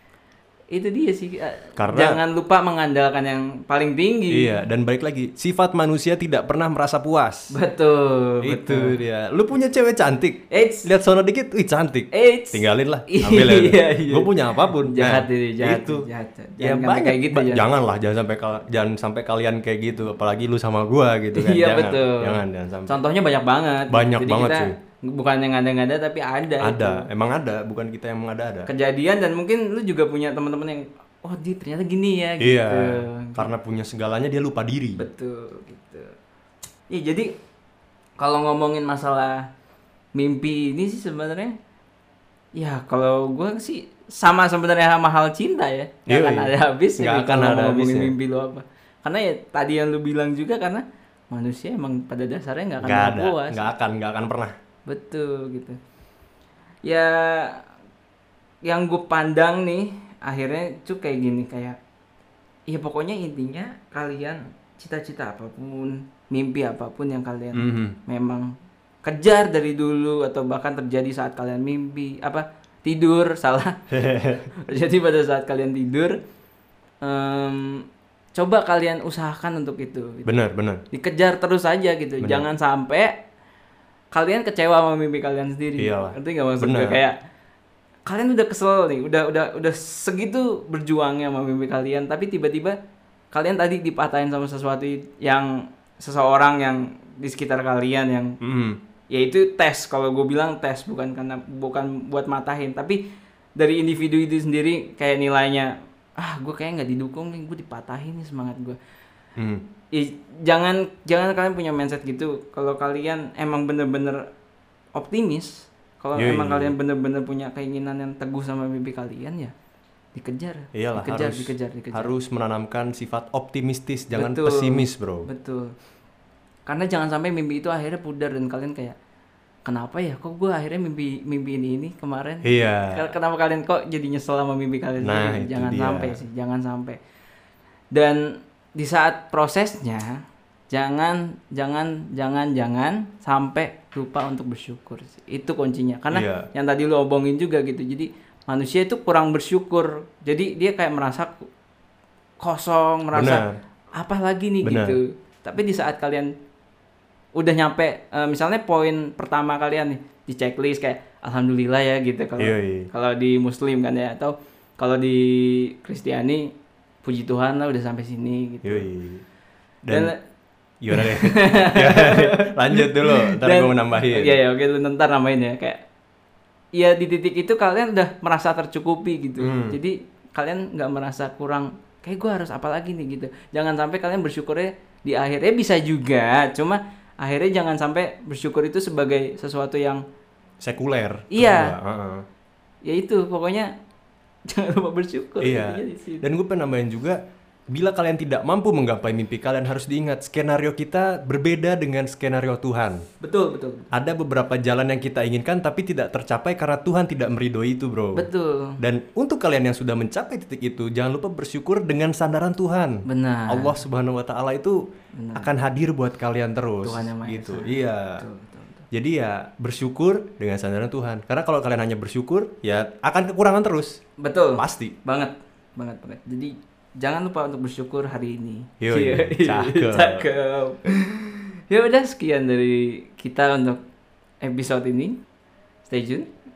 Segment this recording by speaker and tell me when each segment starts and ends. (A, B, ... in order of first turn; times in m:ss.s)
0:00.7-0:04.6 A
0:01.8-0:02.2 B
0:04.3-0:07.6 B
0:07.5-0:09.0 A
0:08.4-0:16.1 B
0:10.5-0:10.9 A
0:12.1-0:17.7 A
0:16.6-0:23.0 B
0:21.3-0:27.1 A
0:23.9-0:24.8 B
0:26.6-0:28.7 B
0:28.7-0:33.5 A
0:32.4-0:35.0 B
0:35.0-0:36.1 A
0:36.9-0:37.3 A
0:38.2-0:39.4 A
0:40.2-0:41.6 A
0:42.6-0:53.7 A
0:46.1-0:48.1 B
0:52.8-0:54.5 B
0:54.9-0:55.8 A
0:56.8-0:57.6 A
0:58.6-1:01.8 A
1:02.7-1:08.5 A
1:07.5-1:08.0 B
1:09.0-1:16.2 A
1:13.9-1:14.5 B
1:17.0-1:17.8 A
1:18.4-1:20.3 A
1:20.3-1:20.8 B
1:20.9-1:23.1 A
1:22.2-1:22.5 B
1:24.1-1:27.2 A
1:25.8-1:27.0 B
1:28.1-1:32.8 A
1:33.3-1:38.3 A
1:38.4-1:38.8 B
1:39.1-1:43.0 A
1:43.6-1:48.8 A
1:49.4-1:49.6 B
1:49.9-1:54.3 A
1:55.0-1:59.5 A
1:56.2-1:56.8 B
2:00.1-2:02.1 A
2:00.7-2:05.3 B
2:04.1-2:05.7 A
2:06.7-2:09.0 A
2:09.6-2:17.0 A
2:12.4-2:13.1 B
2:15.0-2:16.2 B
2:17.9-2:18.2 A
2:18.8-2:20.2 A
2:20.7-2:31.5 A
2:26.1-2:26.5 B
2:32.4-2:33.4 A
2:33.1-2:33.6 B
2:34.0-2:36.3 A
2:34.6-2:35.0 B
2:37.4-2:46.5 A
2:42.4-2:42.9 B
2:47.0-2:48.9 A
2:48.6-2:49.2 B
2:49.9-2:50.1 B
2:49.9-2:50.2 A
2:50.8-2:54.4 B
2:50.9-2:55.8 A
2:56.8-3:10.0 A
2:59.4-2:59.8 B
3:10.6-3:12.2 B
3:11.3-3:11.8 A
3:12.8-3:13.7 A
3:14.5-3:16.3 A
3:15.4-3:17.2 B
3:17.7-3:23.0 B
3:23.2-3:23.9 A
3:23.9-3:28.3 B
3:28.2-3:28.8 A
3:28.8-3:34.8 B
3:33.1-3:33.8 A
3:35.2-3:35.5 A
3:35.4-3:38.2 B
3:36.8-3:38.8 A
3:38.9-3:44.0 B
3:44.2-3:53.8 A
3:44.6-3:45.0 B
3:48.8-3:50.3 B
3:54.4-3:55.2 A
3:55.9-3:56.3 A